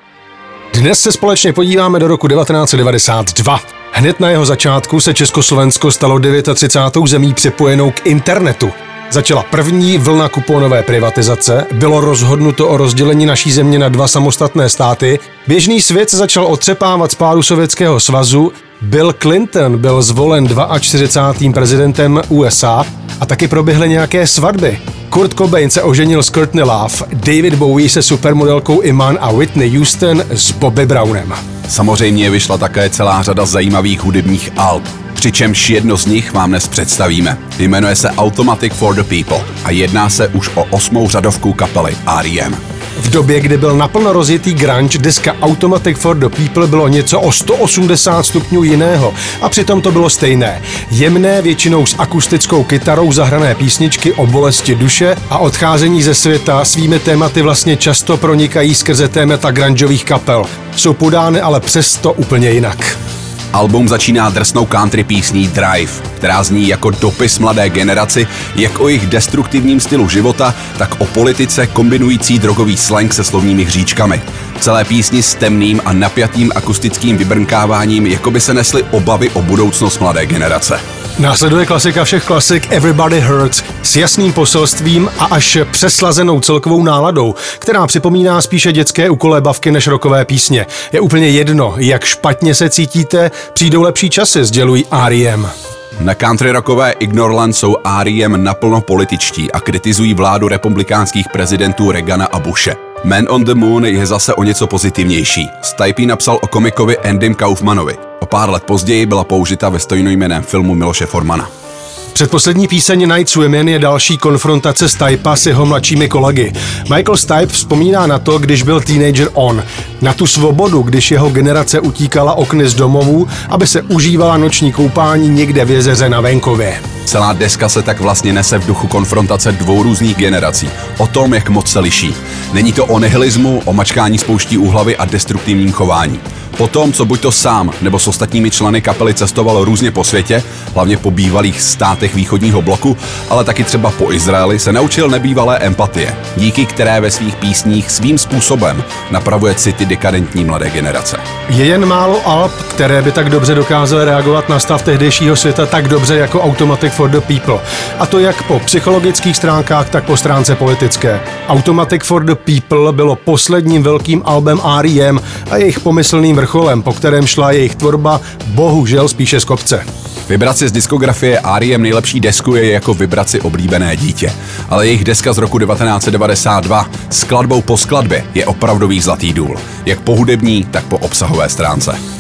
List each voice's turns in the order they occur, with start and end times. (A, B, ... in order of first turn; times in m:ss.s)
0:00.7-0:31.4 A
0:31.7-0:42.6 B
0:43.0-1:03.0 A
1:03.5-1:20.8 B
1:21.2-1:35.5 A
1:36.0-1:51.5 B
1:52.1-2:06.8 A
2:07.1-2:31.2 B
2:31.5-2:49.8 A
2:50.3-3:02.0 B